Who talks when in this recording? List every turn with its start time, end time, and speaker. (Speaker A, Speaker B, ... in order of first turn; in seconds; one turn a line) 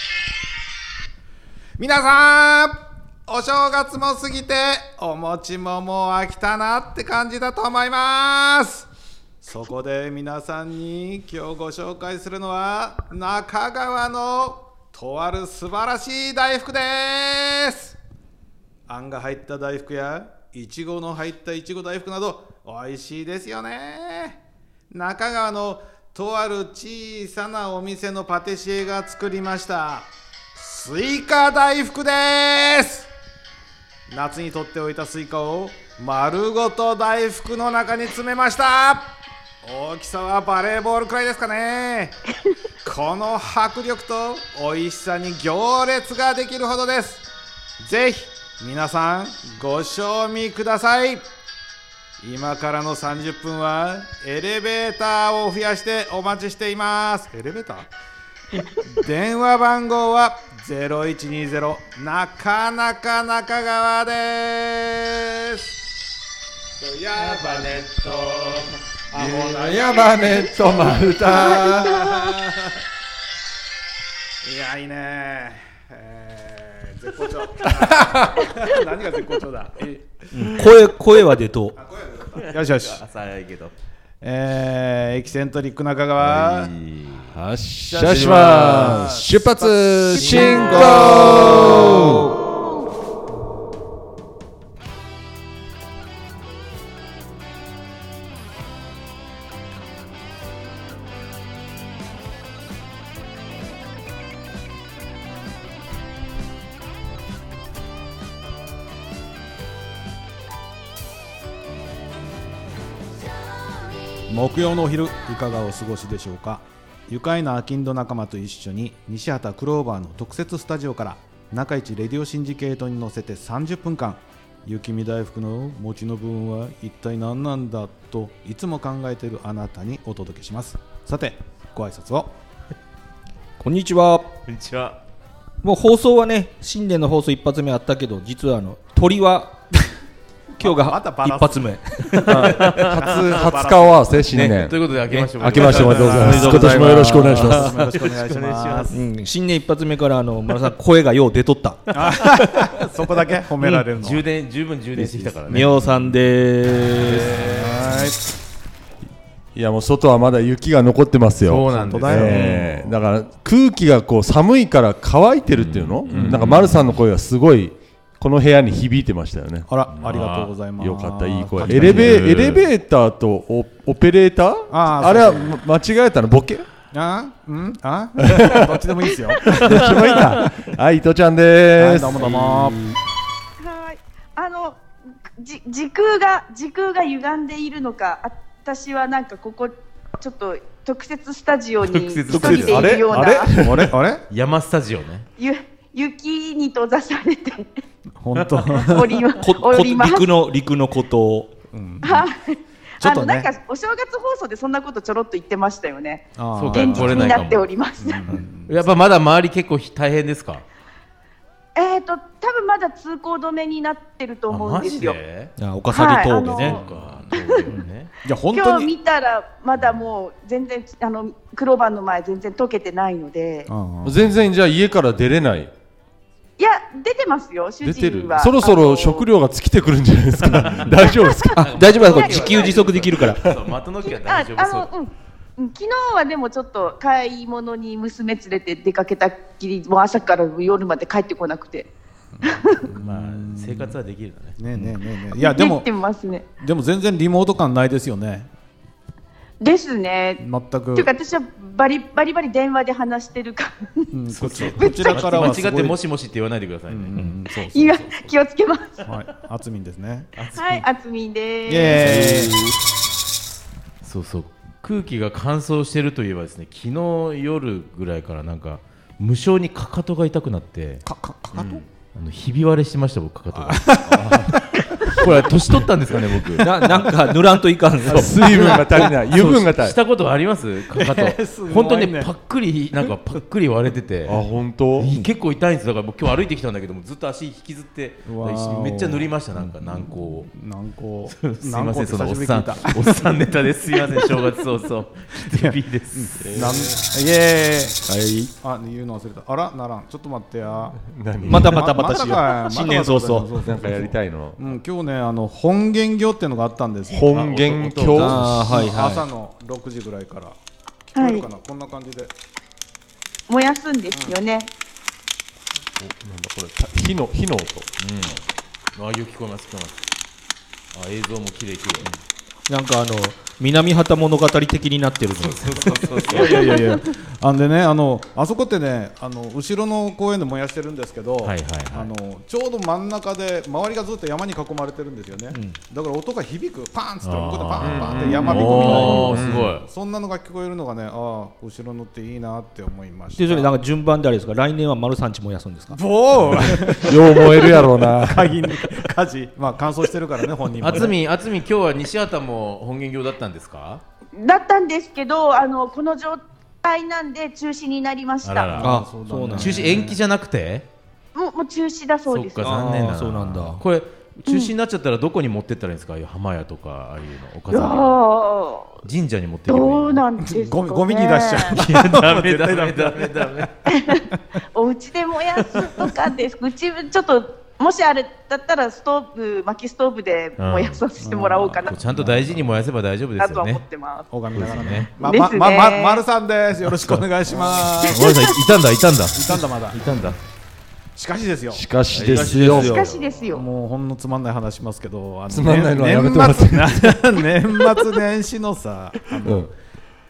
Speaker A: 1.8-8.9
Speaker A: 9.4-17.9
Speaker A: 18.9-33.1
Speaker A: 34.1-42.2
Speaker A: 42.8-47.2
Speaker A: 47.8-51.2
Speaker A: 52.2-57.9
Speaker A: 58.8-65.6
Speaker A: 66.8-72.8
Speaker B: 69.1-72.3
Speaker C: 71.3-72.2
Speaker A: 74.4-80.6
Speaker B: 77.7-78.4
Speaker D: 80.3-81.8
Speaker A: 81.7-83.0
Speaker E: 82.3-83.7
Speaker A: 84.2-86.7
Speaker E: 86.2-87.3
Speaker B: 87.3-92.3
Speaker A: 87.9-92.2
Speaker E: 88.0-89.0
Speaker E: 90.1-91.1
Speaker D: 90.6-92.1
Speaker A: 114.3-132.3
Speaker D: 133.6-134.3
Speaker E: 134.5-135.0
Speaker D: 135.6-139.6
Speaker A: 140.6-144.3
Speaker D: 140.6-142.6
Speaker B: 142.3-144.8
Speaker E: 142.4-143.5
Speaker D: 144.3-147.5
Speaker E: 144.3-146.7
Speaker A: 145.2-149.0
Speaker B: 145.4-147.8
Speaker E: 147.4-148.9
Speaker D: 148.9-152.4
Speaker A: 151.9-154.2
Speaker E: 153.9-155.9
Speaker D: 154.9-157.5
Speaker A: 157.1-158.2
Speaker E: 157.1-157.9
Speaker B: 159.5-169.7
Speaker E: 161.4-162.4
Speaker A: 161.7-162.9
Speaker D: 162.3-162.7
Speaker E: 165.5-167.0
Speaker A: 169.7-172.3
Speaker E: 169.9-170.5
Speaker B: 170.8-176.7
Speaker E: 171.6-172.7
Speaker A: 174.7-175.5
Speaker A: 176.9-180.5
Speaker B: 178.3-178.8
Speaker B: 179.4-182.8
Speaker A: 181.8-182.8
Speaker C: 183.6-184.8
Speaker C: 185.4-193.7
Speaker E: 191.8-193.0
Speaker B: 192.4-194.0
Speaker D: 192.4-192.7
Speaker A: 193.5-194.2
Speaker E: 194.3-195.3
Speaker C: 195.4-197.7
Speaker A: 198.2-199.4
Speaker C: 198.8-200.3
Speaker D: 199.3-201.5
Speaker A: 201.7-202.3
Speaker C: 202.0-208.3
Speaker A: 203.0-203.5
Speaker A: 206.4-208.9
Speaker E: 206.5-207.7
Speaker E: 208.7-210.7
Speaker C: 211.8-215.2
Speaker E: 214.5-215.5
Speaker D: 215.6-216.8
Speaker C: 215.9-217.7
Speaker E: 216.3-218.1
Speaker A: 216.8-217.3
Speaker A: 218.2-218.9
Speaker C: 218.5-223.7
Speaker E: 219.8-220.0
Speaker A: 223.7-224.2
Speaker B: 224.0-225.7
Speaker C: 226.6-229.3
Speaker B: 227.8-231.7
Speaker C: 230.9-232.8
Speaker E: 231.5-234.9
Speaker D: 231.8-233.4
Speaker B: 233.2-233.6
Speaker C: 234.0-241.9
Speaker C: 242.4-242.9
Speaker A: 242.4-243.9
Speaker E: 242.9-244.9
Speaker A: 244.6-245.9
Speaker C: 245.3-246.5
Speaker A: 246.6-248.5
Speaker C: 249.6-250.4
Speaker A: 250.4-251.1
Speaker C: 250.9-255.5
Speaker A: 254.1-256.0
Speaker E: 254.6-257.1
Speaker A: 256.9-258.3
Speaker C: 257.7-259.1
Speaker A: 259.0-260.3
Speaker E: 260.4-260.8
Speaker C: 260.5-262.2
Speaker A: 261.7-262.5
Speaker E: 261.9-262.6
Speaker E: 264.0-274.4
Speaker A: 271.0-271.8
Speaker A: 273.5-275.5
Speaker B: 274.1-274.6
Speaker E: 275.0-276.7
Speaker A: 276.4-277.0
Speaker D: 276.6-279.0
Speaker B: 278.1-280.0
Speaker A: 278.5-278.8
Speaker E: 278.7-284.4
Speaker A: 280.9-282.3
Speaker B: 284.2-285.1
Speaker E: 284.9-290.5
Speaker A: 288.2-293.4
Speaker E: 291.3-296.7
Speaker A: 295.4-298.0
Speaker B: 296.4-296.9
Speaker D: 298.0-298.5
Speaker A: 298.6-307.3
Speaker B: 301.0-301.9
Speaker D: 301.5-303.5
Speaker B: 303.6-304.7
Speaker B: 307.1-308.6
Speaker E: 307.3-308.4
Speaker D: 308.0-309.2
Speaker A: 308.4-310.6
Speaker A: 311.1-312.3
Speaker C: 311.1-311.5
Speaker C: 313.5-314.7
Speaker B: 316.0-317.9
Speaker E: 318.0-318.4
Speaker E: 318.9-320.0
Speaker E: 320.9-322.1
Speaker D: 322.7-326.5
Speaker E: 325.4-326.8
Speaker A: 325.8-343.7
Speaker C: 326.4-327.0
Speaker E: 331.4-332.1
Speaker D: 335.5-335.8
Speaker E: 337.2-339.9
Speaker B: 337.8-339.7
Speaker D: 338.7-339.4
Speaker D: 343.4-346.0
Speaker A: 345.9-351.1
Speaker B: 347.0-348.8
Speaker E: 350.8-354.0
Speaker C: 354.4-358.8
Speaker E: 358.4-358.9
Speaker A: 358.7-360.2
Speaker D: 358.8-360.0
Speaker E: 359.6-360.9
Speaker C: 361.3-362.7
Speaker E: 362.3-368.2
Speaker D: 362.6-363.8
Speaker C: 367.7-369.0
Speaker E: 369.0-370.2
Speaker C: 369.7-371.8
Speaker A: 370.4-373.9
Speaker E: 371.7-373.8
Speaker C: 373.9-382.0
Speaker E: 380.6-381.0
Speaker A: 381.2-382.7
Speaker E: 381.7-383.8
Speaker C: 383.4-384.3
Speaker A: 384.3-388.5
Speaker E: 384.5-385.1
Speaker C: 385.2-386.2
Speaker E: 388.0-390.4
Speaker A: 389.3-390.0
Speaker A: 391.1-391.8
Speaker B: 391.7-393.1
Speaker E: 392.1-393.5
Speaker D: 392.2-393.1
Speaker C: 392.7-393.6
Speaker A: 393.5-399.7
Speaker B: 395.5-397.2
Speaker B: 399.4-399.7